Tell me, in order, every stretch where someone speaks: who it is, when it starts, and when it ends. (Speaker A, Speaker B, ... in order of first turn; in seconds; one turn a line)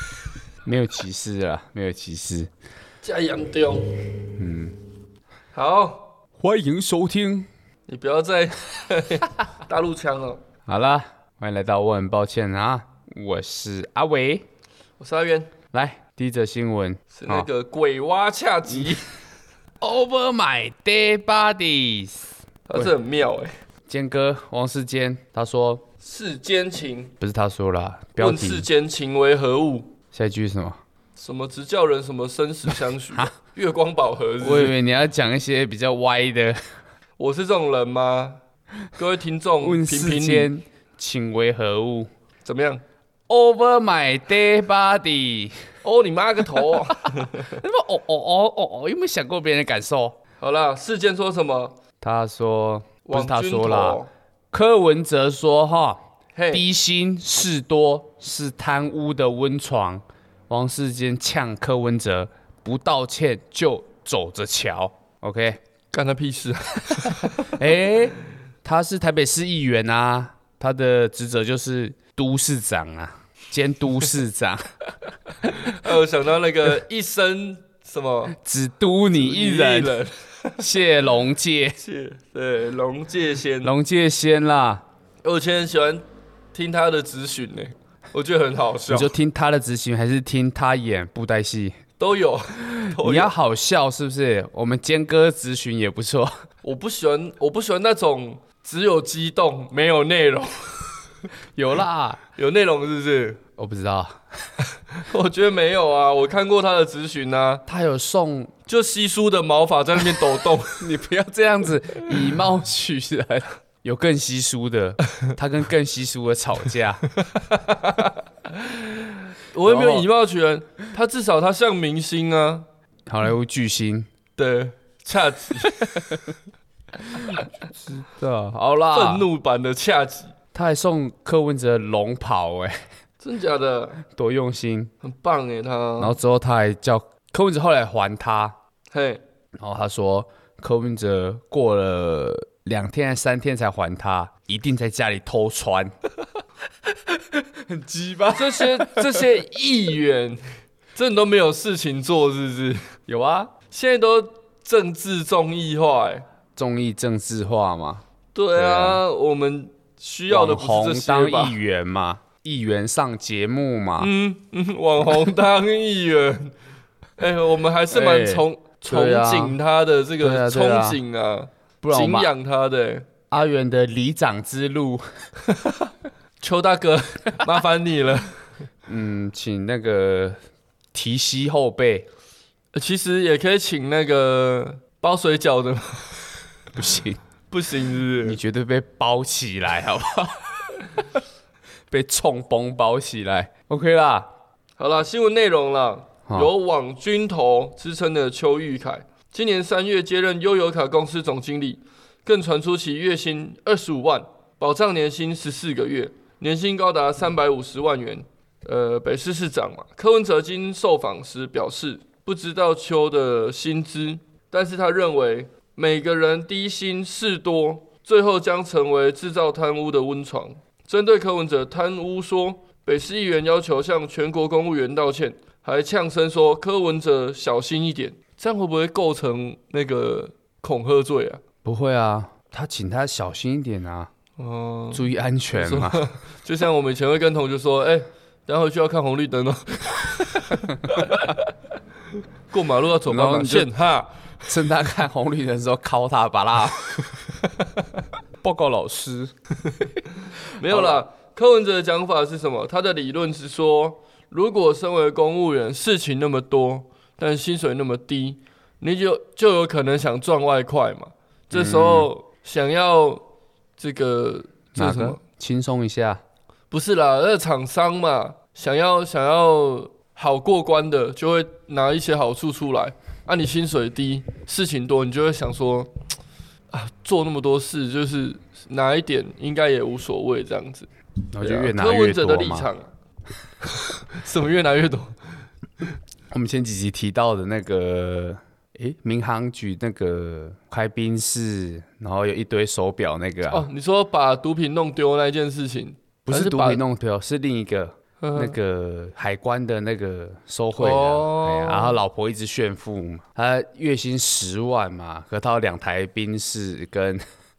Speaker A: 0.6-2.5
Speaker B: 3.0-4.1
Speaker A: 4.4-4.8
Speaker B: 5.5-6.1
Speaker A: 6.4-7.5
Speaker B: 7.9-10.4
Speaker A: 10.7-14.4
Speaker B: 15.0-15.5
Speaker A: 15.7-17.5
Speaker B: 17.1-19.1
Speaker A: 18.7-19.0
Speaker A: 19.8-22.9
Speaker B: 22.7-23.5
Speaker A: 23.9-25.8
Speaker B: 26.0-27.1
Speaker A: 27.2-28.6
Speaker B: 28.2-29.9
Speaker A: 30.1-30.8
Speaker B: 31.2-34.7
Speaker A: 34.4-36.6
Speaker B: 37.2-38.4
Speaker B: 38.9-40.5
Speaker A: 39.6-42.1
Speaker B: 42.4-42.8
Speaker A: 43.3-45.6
Speaker B: 45.8-47.6
Speaker A: 47.4-50.1
Speaker B: 50.4-51.8
Speaker A: 52.0-54.0
Speaker B: 53.0-54.1
Speaker A: 54.5-65.6
Speaker B: 56.4-56.6
Speaker B: 65.9-67.5
Speaker A: 67.4-74.6
Speaker A: 75.4-75.7
Speaker B: 75.5-78.4
Speaker A: 78.3-80.0
Speaker B: 79.1-80.6
Speaker A: 80.6-81.8
Speaker B: 81.8-83.7
Speaker A: 83.6-84.8
Speaker B: 85.2-89.1
Speaker A: 88.9-91.8
Speaker B: 92.0-93.3
Speaker A: 92.9-96.3
Speaker B: 96.6-100.9
Speaker A: 101.5-102.2
Speaker B: 102.4-103.4
Speaker A: 103.6-104.2
Speaker B: 104.9-107.6
Speaker A: 107.7-108.5
Speaker B: 108.7-110.8
Speaker A: 110.8-117.1
Speaker B: 117.2-122.6
Speaker A: 119.7-120.1
Speaker A: 123.1-124.1
Speaker B: 124.4-126.3
Speaker B: 127.1-127.4
Speaker A: 127.2-129.3
Speaker B: 128.9-130.3
Speaker A: 130.5-132.8
Speaker B: 133.2-134.0
Speaker A: 134.1-134.9
Speaker B: 135.0-136.2
Speaker A: 136.0-138.5
Speaker B: 138.9-139.2
Speaker A: 139.6-145.9
Speaker A: 147.1-149.3
Speaker B: 148.3-150.4
Speaker B: 150.9-152.8
Speaker A: 153.1-153.5
Speaker B: 153.7-156.2
Speaker A: 156.6-158.0
Speaker B: 158.3-161.6
Speaker A: 158.5-159.0
Speaker A: 160.3-164.1
Speaker B: 164.0-166.5
Speaker B: 167.2-173.1
Speaker A: 167.9-169.6
Speaker A: 170.2-171.0
Speaker A: 171.8-172.3
Speaker A: 173.3-175.0
Speaker B: 175.5-175.8
Speaker B: 176.4-178.4
Speaker A: 178.9-180.4
Speaker A: 180.9-182.1
Speaker B: 182.7-186.3
Speaker A: 186.7-187.2
Speaker B: 187.5-188.4
Speaker A: 188.2-191.0
Speaker A: 191.9-194.3
Speaker B: 194.8-231.4
Speaker A: 231.6-234.1
Speaker B: 234.4-241.5
Speaker A: 234.9-236.0
Speaker B: 242.5-244.2
Speaker A: 243.1-243.7
Speaker A: 244.4-247.2
Speaker A: 248.4-249.3
Speaker B: 250.5-263.2
Speaker A: 250.6-251.0
Speaker A: 261.5-262.1
Speaker B: 263.8-265.2
Speaker A: 264.7-266.2
Speaker B: 266.7-275.9
Speaker B: 276.7-280.9
Speaker A: 281.3-282.7
Speaker B: 281.4-282.9
Speaker B: 283.6-285.2
Speaker A: 286.3-293.7
Speaker B: 293.5-296.8
Speaker A: 296.2-307.2
Speaker B: 298.2-298.5
Speaker B: 300.8-301.9